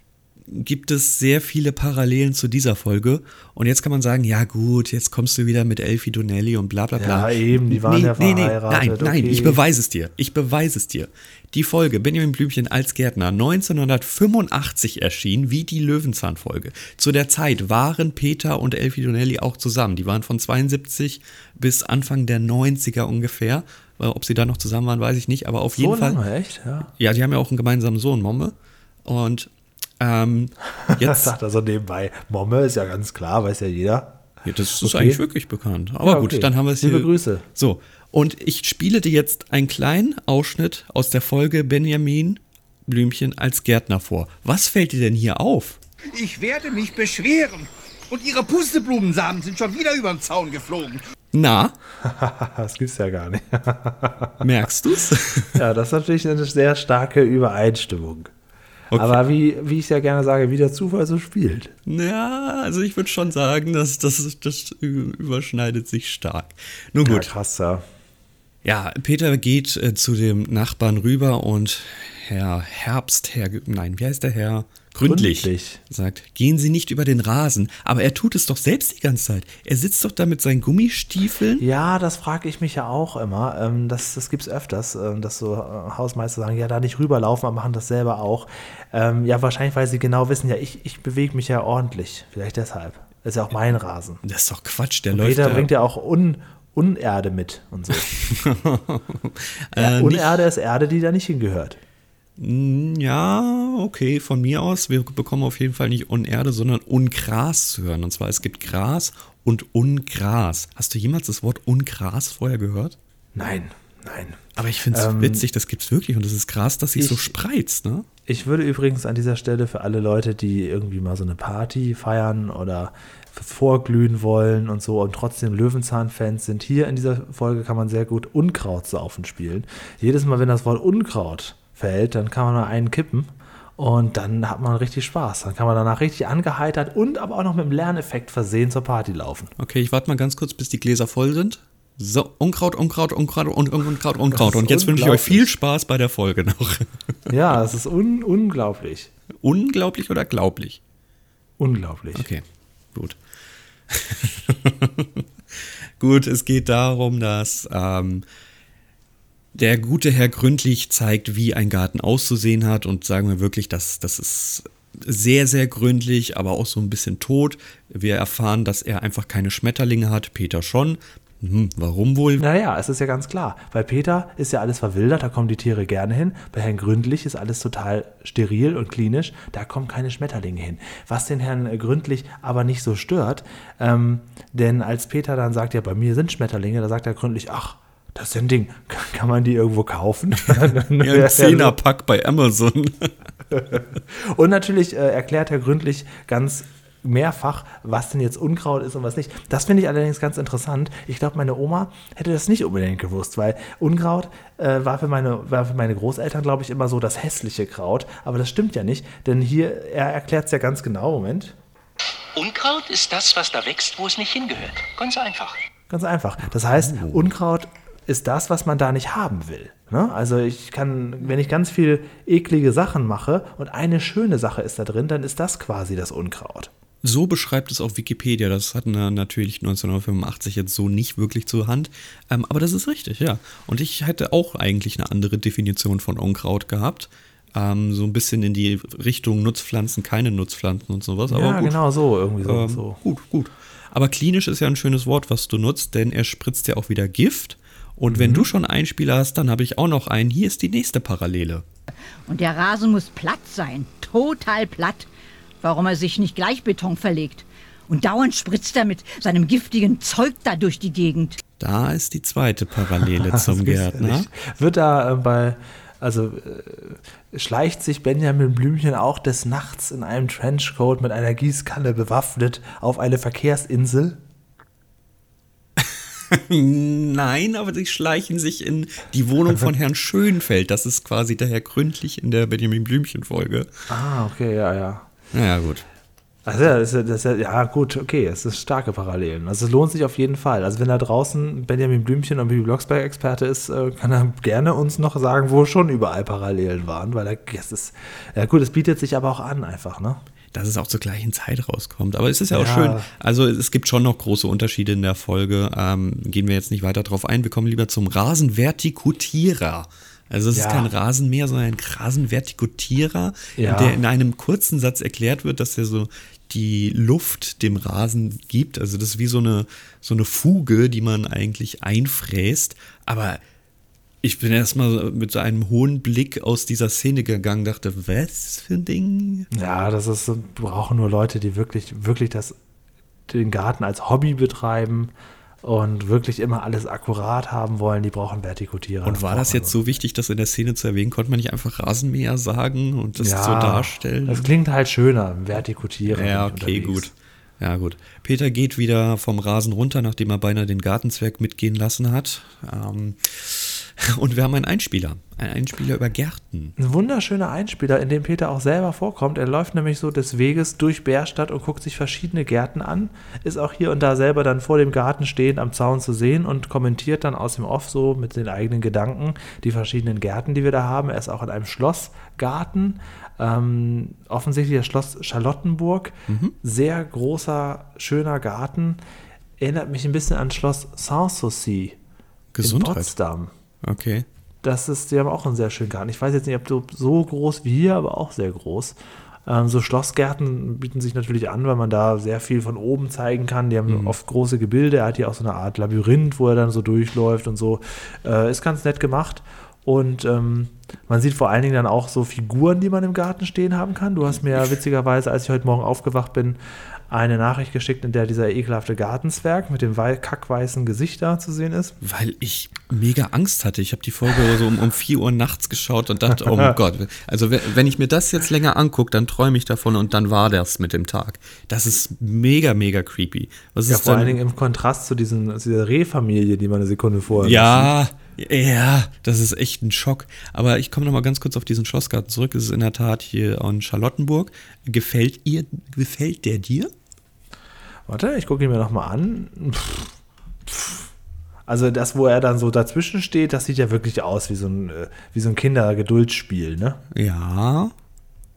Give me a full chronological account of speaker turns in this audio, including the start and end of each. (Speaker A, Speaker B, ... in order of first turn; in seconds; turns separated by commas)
Speaker A: 0.5-26.2, Speaker B: 7.0-9.6, Speaker B: 25.7-26.9, Speaker A: 26.9-31.3, Speaker B: 30.8-34.2, Speaker A: 34.4-45.8, Speaker B: 34.8-35.2, Speaker B: 36.0-37.4, Speaker C: 46.2-47.2, Speaker C: 48.1-50.8, Speaker D: 48.3-48.7, Speaker A: 51.3-51.7, Speaker B: 52.0-54.4, Speaker A: 54.4-55.6, Speaker B: 55.5-58.3, Speaker A: 58.9-59.2, Speaker B: 58.9-61.7, Speaker A: 61.9-67.3, Speaker B: 67.0-67.8, Speaker A: 68.6-81.6, Speaker B: 75.0-75.8, Speaker B: 81.6-94.2, Speaker A: 94.2-95.7, Speaker B: 95.1-98.1, Speaker A: 98.0-100.4, Speaker B: 99.7-101.8, Speaker A: 102.4-113.0, Speaker B: 113.3-115.5, Speaker A: 114.5-118.1, Speaker B: 117.0-117.3, Speaker B: 118.3-139.5, Speaker A: 139.6-146.9, Speaker B: 144.3-145.5, Speaker B: 147.3-149.1, Speaker A: 149.4-150.8, Speaker B: 151.6-152.3, Speaker A: 152.1-153.2, Speaker A: 153.9-158.2, Speaker A: 159.5-172.4, Speaker B: 172.4-191.8, Speaker A: 190.5-193.2, Speaker B: 193.5-211.5, Speaker D: 212.3-215.6, Speaker B: 215.9-226.7, Speaker A: 216.5-217.3, Speaker A: 227.0-241.8, Speaker B: 241.3-243.0, Speaker A: 242.4-251.6, Speaker B: 248.1-248.5, Speaker E: 252.3-255.1, Speaker E: 255.6-261.4, Speaker A: 261.6-264.3, Speaker B: 263.2-274.2, Speaker A: 275.8-283.7, Speaker B: 283.9-285.1, Speaker A: 285.3-285.9, Speaker B: 286.4-300.2, Speaker A: 300.5-323.4, Speaker B: 302.5-303.1, Speaker B: 310.5-310.9, Speaker B: 313.5-314.0, Speaker A: 324.2-329.5, Speaker B: 329.5-332.5, Speaker B: 333.3-335.1, Speaker B: 335.6-339.8, Speaker A: 339.0-344.5, Speaker B: 343.2-347.1, Speaker A: 346.1-356.7, Speaker B: 356.8-379.0, Speaker A: 376.3-376.6, Speaker B: 379.6-382.0, Speaker A: 382.5-383.1, Speaker B: 382.6-383.5, Speaker A: 383.8-384.3, Speaker B: 384.6-406.6, Speaker A: 393.9-394.1, Speaker B: 407.1-411.9, Speaker A: 412.0-424.4, Speaker B: 423.9-427.9, Speaker A: 427.4-436.9, Speaker B: 438.1-440.1, Speaker B: 440.6-441.1, Speaker B: 441.7-447.0, Speaker A: 447.1-447.9